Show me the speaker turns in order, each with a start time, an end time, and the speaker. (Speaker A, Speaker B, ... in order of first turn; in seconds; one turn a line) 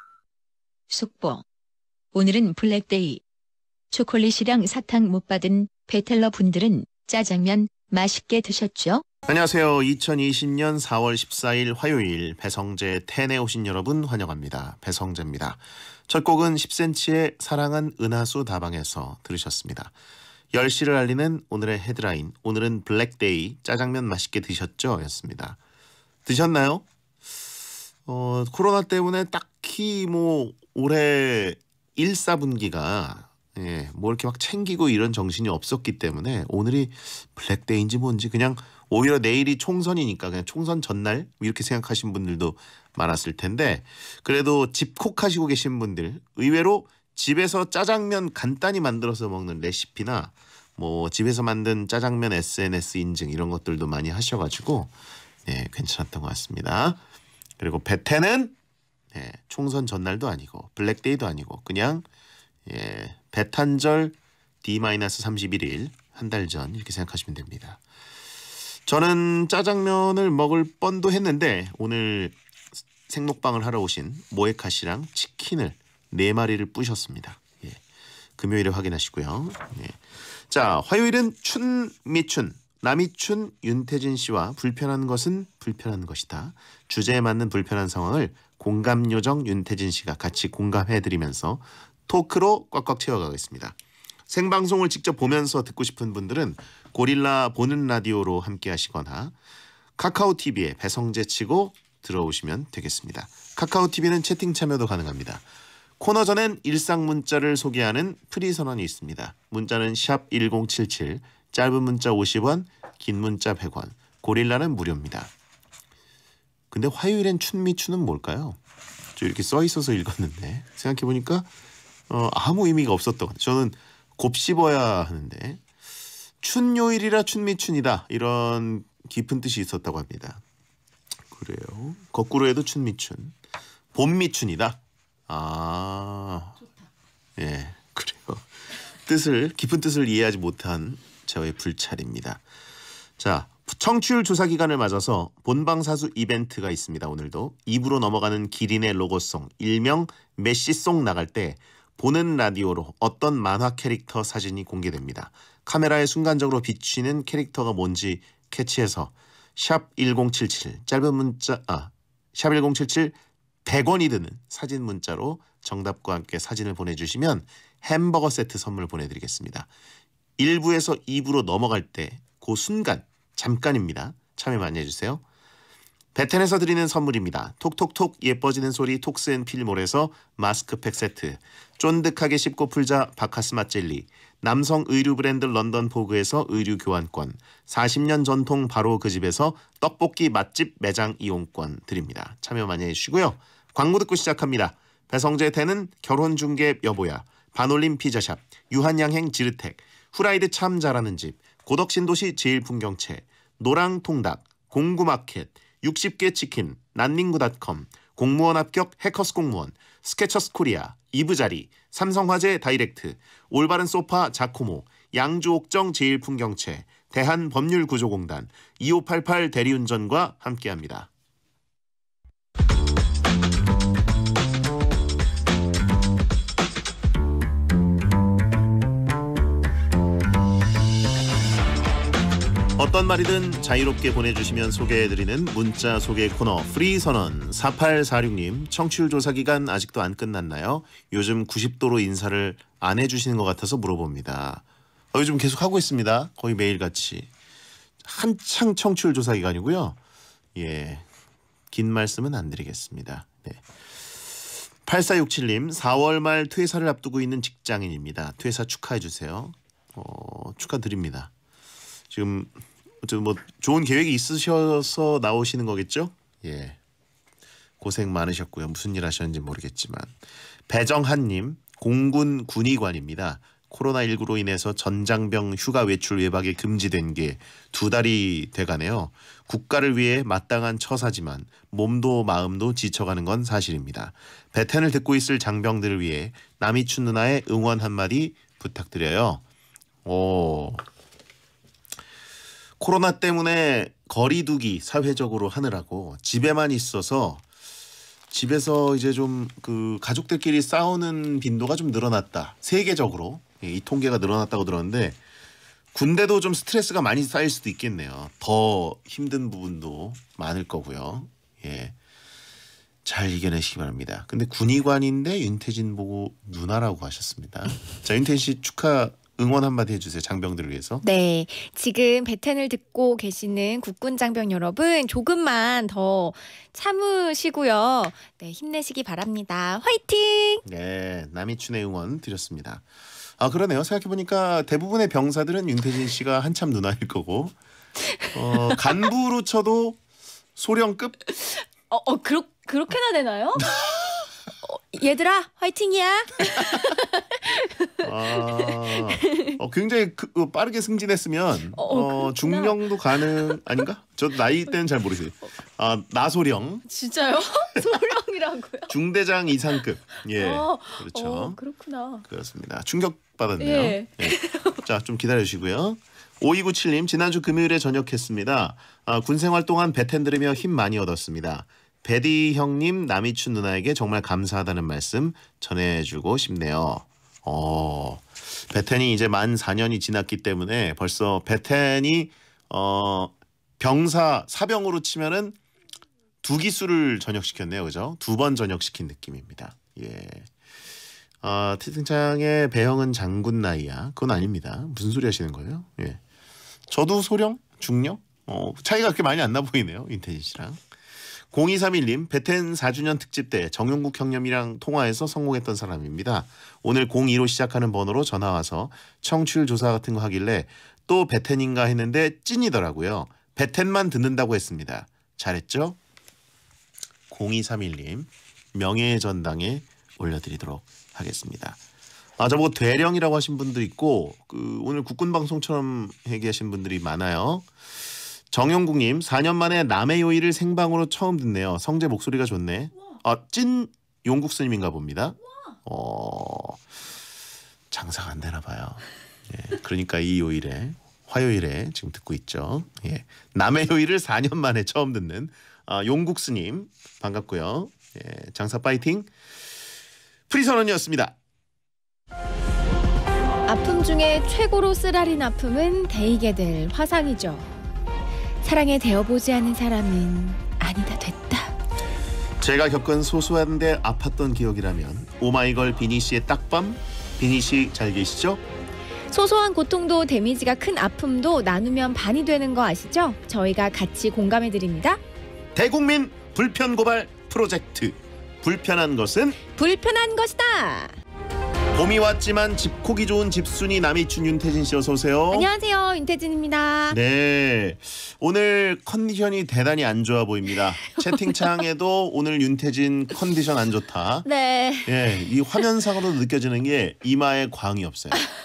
Speaker A: 0.9-1.4
Speaker A: 2.1-3.2
Speaker A: 3.9-9.1
Speaker B: 9.3-19.9
Speaker B: 20.5-25.6
Speaker B: 26.3-26.9
Speaker B: 28.1-54.9
Speaker B: 55.5-57.0
Speaker B: 57.6-58.5
Speaker B: 59.1-62.1
Speaker B: 62.7-67.8
Speaker B: 68.9-72.4
Speaker B: 73.1-77.8
Speaker B: 78.4-93.8
Speaker B: 94.3-99.3
Speaker B: 100.0-105.4
Speaker B: 106.0-115.3
Speaker B: 116.7-118.6
Speaker B: 119.2-121.5
Speaker B: 122.1-125.6
Speaker B: 126.4-130.4
Speaker B: 131.3-133.4
Speaker B: 133.9-136.6
Speaker B: 137.4-142.4
Speaker B: 143.2-169.7
Speaker B: 170.4-175.2
Speaker B: 176.2-221.1
Speaker B: 232.8-247.3
Speaker B: 248.0-250.0
Speaker B: 250.6-251.1
Speaker B: 251.7-253.6
Speaker B: 254.8-261.3
Speaker B: 262.1-266.8
Speaker B: 267.8-289.4
Speaker B: 290.1-290.8
Speaker B: 292.8-297.4
Speaker B: 298.3-305.2
Speaker B: 305.9-311.9
Speaker B: 313.1-321.0
Speaker C: 321.0-330.6
Speaker B: 330.6-332.9
Speaker B: 333.4-337.6
Speaker C: 338.1-339.1
Speaker B: 338.3-340.0
Speaker B: 340.6-341.2
Speaker C: 341.4-343.7
Speaker B: 343.6-344.1
Speaker C: 344.6-349.6
Speaker B: 348.0-356.9
Speaker C: 351.8-353.8
Speaker C: 356.9-358.9
Speaker B: 358.9-361.6
Speaker C: 360.3-362.2
Speaker B: 362.3-385.6
Speaker C: 363.6-364.8
Speaker B: 386.4-390.5
Speaker B: 391.4-396.2
Speaker B: 396.9-400.8
Speaker B: 401.4-416.0
Speaker B: 417.3-421.8
Speaker B: 422.4-427.7
Speaker B: 428.5-436.8
Speaker B: 437.9-449.3
Speaker B: 450.5-451.4
Speaker C: 453.7-457.7
Speaker C: 458.6-461.8
Speaker B: 462.6-468.6
Speaker C: 469.3-475.2
Speaker B: 475.8-479.6
Speaker C: 479.8-481.2
Speaker B: 481.9-485.7
Speaker C: 485.5-487.2
Speaker B: 487.1-494.5
Speaker C: 491.0-491.8
Speaker C: 494.4-495.4
Speaker B: 495.1-498.5